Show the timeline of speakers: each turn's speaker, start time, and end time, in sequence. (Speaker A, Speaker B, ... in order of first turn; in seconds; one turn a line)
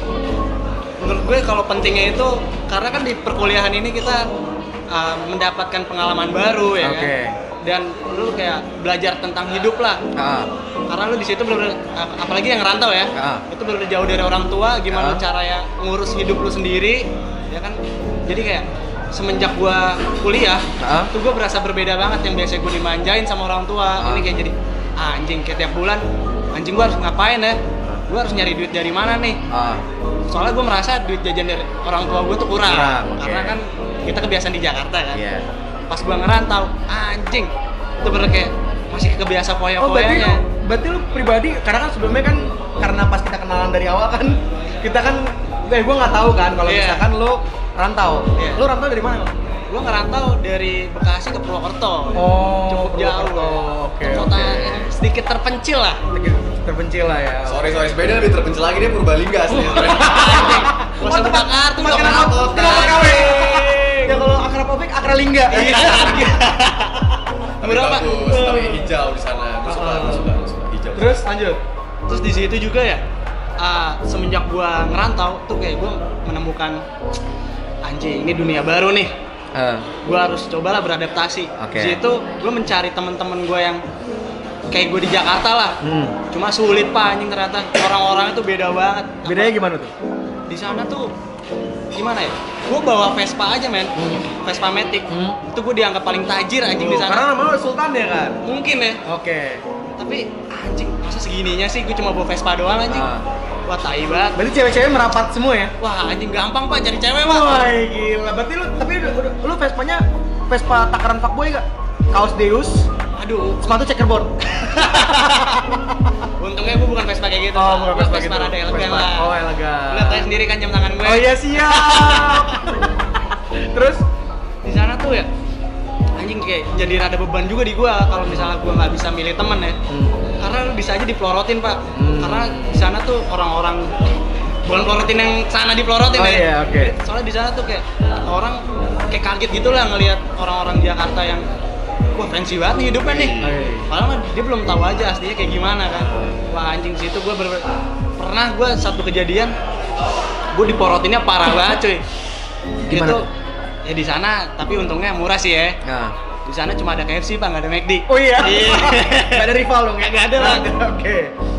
Speaker A: 1.0-4.2
Speaker A: 4.9-7.1
Speaker B: 6.8-7.4
Speaker A: 7.6-10.0
Speaker B: 10.2-10.5
Speaker A: 10.9-29.4
Speaker B: 13.2-13.4
Speaker B: 14.9-15.2
Speaker B: 20.8-21.1
Speaker B: 24.0-24.3
Speaker B: 29.5-29.9
Speaker A: 30.3-35.2
Speaker B: 32.6-33.6
Speaker B: 35.1-35.5
Speaker A: 35.9-40.4
Speaker B: 39.8-49.3
Speaker A: 46.6-47.0
Speaker A: 48.4-48.6
Speaker A: 49.7-56.0
Speaker B: 52.1-54.9
Speaker B: 56.1-58.0
Speaker C: 57.5-60.6
Speaker B: 59.5-66.3
Speaker A: 59.7-64.2
Speaker C: 61.8-63.4
Speaker A: 65.5-68.8
Speaker C: 65.6-66.3
Speaker C: 67.6-71.2
Speaker A: 69.7-70.2
Speaker B: 70.9-71.6
Speaker A: 72.1-73.0
Speaker A: 73.6-76.8
Speaker A: 77.8-79.1
Speaker B: 79.5-79.9
Speaker A: 80.0-83.8
Speaker B: 81.6-82.0
Speaker A: 84.7-89.5
Speaker B: 85.8-86.2
Speaker B: 89.2-89.9
Speaker A: 90.5-91.1
Speaker A: 92.0-97.2
Speaker B: 94.0-94.3
Speaker B: 95.1-95.4
Speaker B: 96.7-98.4
Speaker A: 98.4-99.0
Speaker B: 99.0-99.6
Speaker A: 100.0-103.1
Speaker B: 102.9-103.3
Speaker A: 103.7-104.4
Speaker B: 104.3-105.7
Speaker A: 105.8-107.6
Speaker B: 107.2-112.9
Speaker A: 113.2-113.8
Speaker B: 113.6-115.8
Speaker A: 114.6-115.6
Speaker A: 116.4-119.3
Speaker B: 117.5-120.3
Speaker A: 119.9-122.5
Speaker B: 121.0-123.0
Speaker B: 123.5-124.0
Speaker A: 124.6-125.3
Speaker A: 126.2-129.8
Speaker B: 128.3-128.5
Speaker B: 129.9-130.2
Speaker A: 130.4-134.0
Speaker B: 132.0-132.8
Speaker A: 134.7-141.4
Speaker B: 136.1-136.9
Speaker A: 142.2-147.6
Speaker B: 143.4-143.9
Speaker B: 145.9-146.4
Speaker A: 148.2-149.5
Speaker A: 150.5-152.0
Speaker B: 152.8-153.3
Speaker A: 152.9-153.3
Speaker A: 153.8-155.8
Speaker B: 155.8-156.2
Speaker A: 156.5-159.5
Speaker B: 158.1-161.3
Speaker A: 160.2-160.6